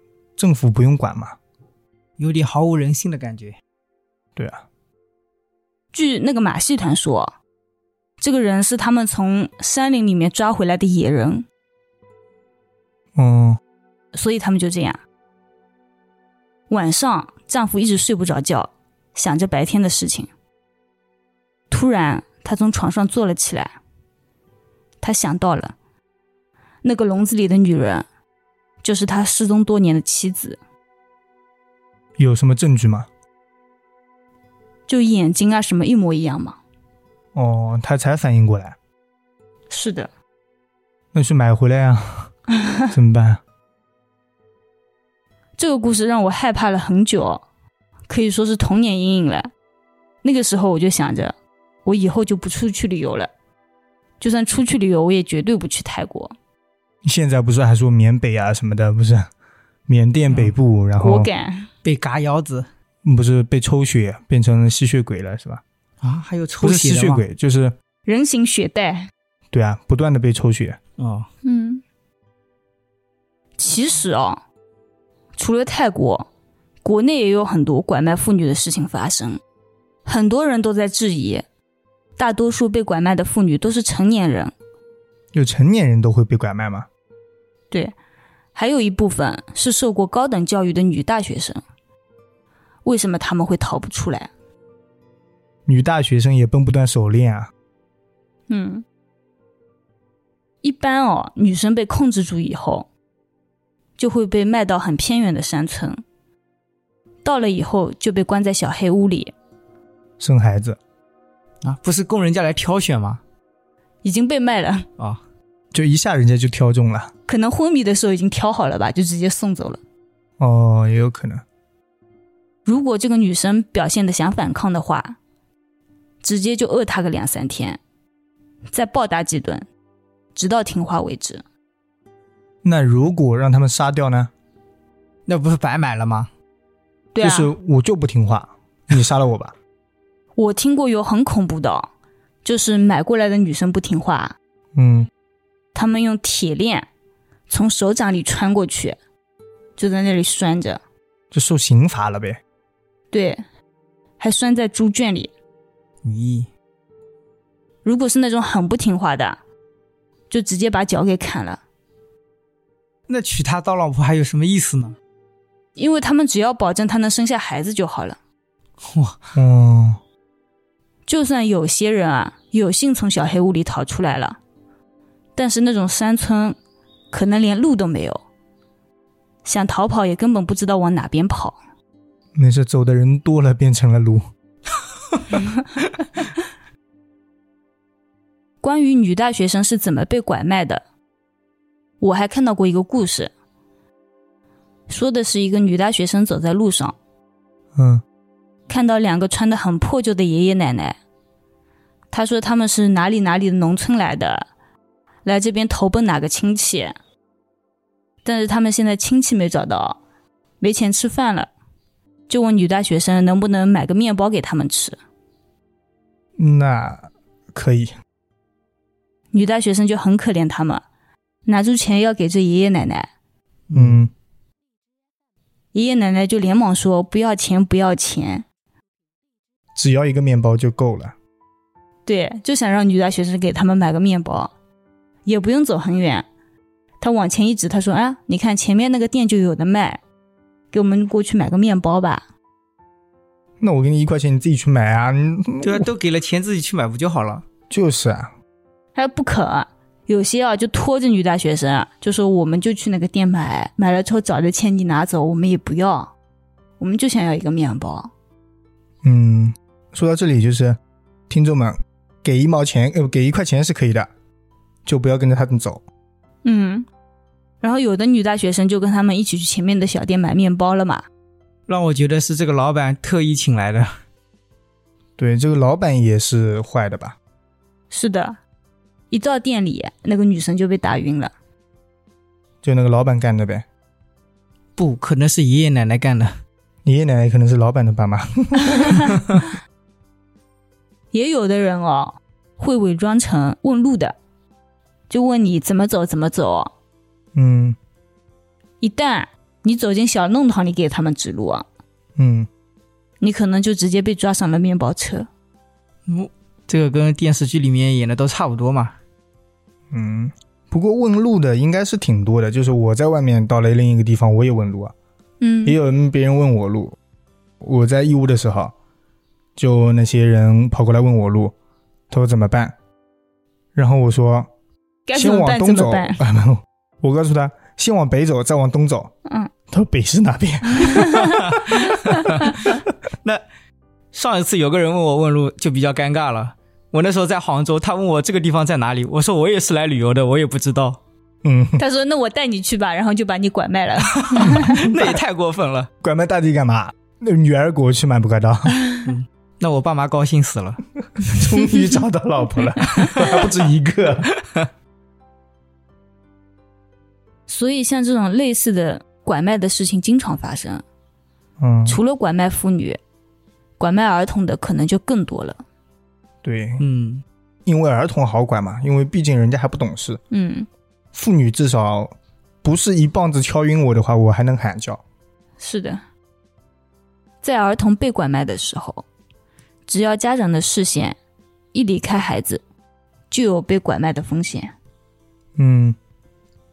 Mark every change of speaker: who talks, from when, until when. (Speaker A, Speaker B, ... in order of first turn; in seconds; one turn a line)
Speaker A: 0.4-1.4
Speaker B: 2.2-3.6
Speaker A: 4.3-4.6
Speaker C: 5.9-7.3
Speaker C: 8.2-11.4
Speaker A: 13.1-13.6
Speaker C: 14.1-15.0
Speaker C: 16.7-20.3
Speaker C: 21.7-23.8
Speaker C: 25.0-25.7
Speaker C: 26.8-28.1
Speaker C: 28.8-30.6
Speaker A: 32.2-33.1
Speaker C: 34.9-36.6
Speaker A: 37.3-38.8
Speaker C: 39.7-40.1
Speaker A: 41.1-42.3
Speaker A: 42.9-43.4
Speaker C: 45.6-47.4
Speaker C: 48.1-49.5
Speaker C: 50.2-51.3
Speaker C: 51.8-53.3
Speaker C: 54.2-56.3
Speaker A: 57.0-59.3
Speaker A: 59.9-61.3
Speaker C: 61.0-61.7
Speaker B: 61.8-62.7
Speaker A: 63.0-65.6
Speaker B: 66.0-67.2
Speaker A: 66.6-67.7
Speaker C: 68.0-69.1
Speaker A: 69.5-70.8
Speaker B: 71.0-71.3
Speaker C: 71.4-71.8
Speaker C: 73.6-74.4
Speaker C: 75.4-76.3
Speaker C: 76.8-79.4
Speaker C: 80.0-81.5
Speaker C: 82.2-84.5
Speaker A: 85.3-86.9
Speaker C: 88.5-91.6
Speaker C: 92.8-94.3
Speaker A: 95.7-97.5
Speaker C: 98.5-98.8
Speaker C: 100.6-102.9
Speaker C: 104.0-106.0
Speaker C: 107.2-109.3
Speaker A: 110.2-110.8
Speaker B: 111.6-113.2
Speaker C: 114.0-114.9
Speaker A: 115.7-117.1
Speaker C: 117.3-119.8
Speaker A: 120.4-121.4
Speaker C: 122.6-125.2
Speaker C: 126.2-127.8
Speaker C: 128.7-129.7
Speaker C: 130.3-131.4
Speaker A: 132.6-134.3
Speaker B: 135.3-136.3
Speaker C: 137.1-137.5
Speaker A: 137.2-139.5
Speaker C: 140.4-141.9
Speaker C: 142.4-144.3
Speaker A: 144.7-145.1
Speaker C: 145.7-146.8
Speaker C: 147.5-149.0
Speaker C: 149.8-150.8
Speaker A: 151.3-152.4
Speaker C: 153.1-153.4
Speaker C: 154.2-155.3
Speaker B: 156.0-156.5
Speaker C: 157.8-159.4
Speaker C: 160.3-161.6
Speaker B: 163.1-164.9
Speaker C: 165.8-168.2
Speaker B: 168.8-169.2
Speaker A: 169.3-170.0
Speaker C: 171.1-174.4
Speaker C: 175.3-176.6
Speaker C: 177.1-178.2
Speaker C: 179.4-181.6
Speaker A: 182.3-184.2
Speaker C: 188.6-190.8
Speaker C: 192.0-193.3
Speaker C: 194.9-196.9
Speaker A: 197.8-198.0
Speaker C: 198.7-201.0
Speaker C: 202.1-204.5
Speaker C: 205.2-206.9
Speaker C: 208.2-210.0
Speaker C: 210.6-211.5
Speaker C: 212.3-215.0
Speaker A: 216.4-217.9
Speaker C: 219.3-220.8
Speaker C: 221.4-223.1
Speaker B: 223.7-224.0
Speaker A: 223.7-224.1
Speaker C: 225.7-228.4
Speaker A: 229.8-231.1
Speaker C: 232.1-234.5
Speaker C: 235.2-236.2
Speaker C: 237.0-240.0
Speaker C: 240.7-242.2
Speaker A: 243.6-245.9
Speaker B: 245.6-247.4
Speaker A: 247.7-248.3
Speaker C: 248.9-256.1
Speaker C: 256.8-258.1
Speaker A: 259.0-260.8
Speaker A: 261.3-264.1
Speaker A: 264.9-265.8
Speaker C: 266.4-266.9
Speaker C: 267.6-271.1
Speaker B: 271.7-273.9
Speaker A: 275.2-277.2
Speaker C: 277.9-278.4
Speaker C: 279.1-281.3
Speaker A: 282.6-283.6
Speaker B: 284.8-286.4
Speaker A: 286.8-289.2
Speaker C: 291.1-294.1
Speaker C: 295.1-296.7
Speaker A: 297.3-297.8
Speaker C: 298.8-301.6
Speaker A: 302.2-302.5
Speaker C: 303.2-305.3
Speaker B: 306.1-308.9
Speaker A: 309.9-314.9
Speaker C: 315.4-315.8
Speaker A: 315.6-317.0
Speaker A: 317.6-318.7
Speaker A: 319.6-321.5
Speaker A: 322.1-322.7
Speaker A: 323.7-324.5
Speaker C: 325.1-326.2
Speaker A: 325.1-329.1
Speaker A: 329.7-331.6
Speaker C: 330.7-332.6
Speaker B: 331.4-333.4
Speaker B: 334.1-341.0
Speaker A: 341.4-341.8
Speaker C: 341.8-344.8
Speaker B: 344.1-345.9
Speaker A: 344.4-345.2
Speaker A: 346.0-348.8
Speaker B: 349.0-350.8
Speaker A: 351.3-354.3
Speaker C: 357.5-360.8
Speaker A: 361.6-362.0
Speaker C: 361.9-363.0
Speaker C: 363.8-365.6
Speaker A: 366.4-366.8
Speaker B: 366.8-367.2
Speaker A: 367.6-370.2
Speaker C: 370.3-370.7
Speaker A: 371.1-375.0
Speaker C: 375.6-376.0
Speaker C: 377.4-379.0
Speaker C: 379.9-381.2
Speaker C: 381.7-382.6
Speaker C: 383.3-384.7
Speaker A: 385.6-385.9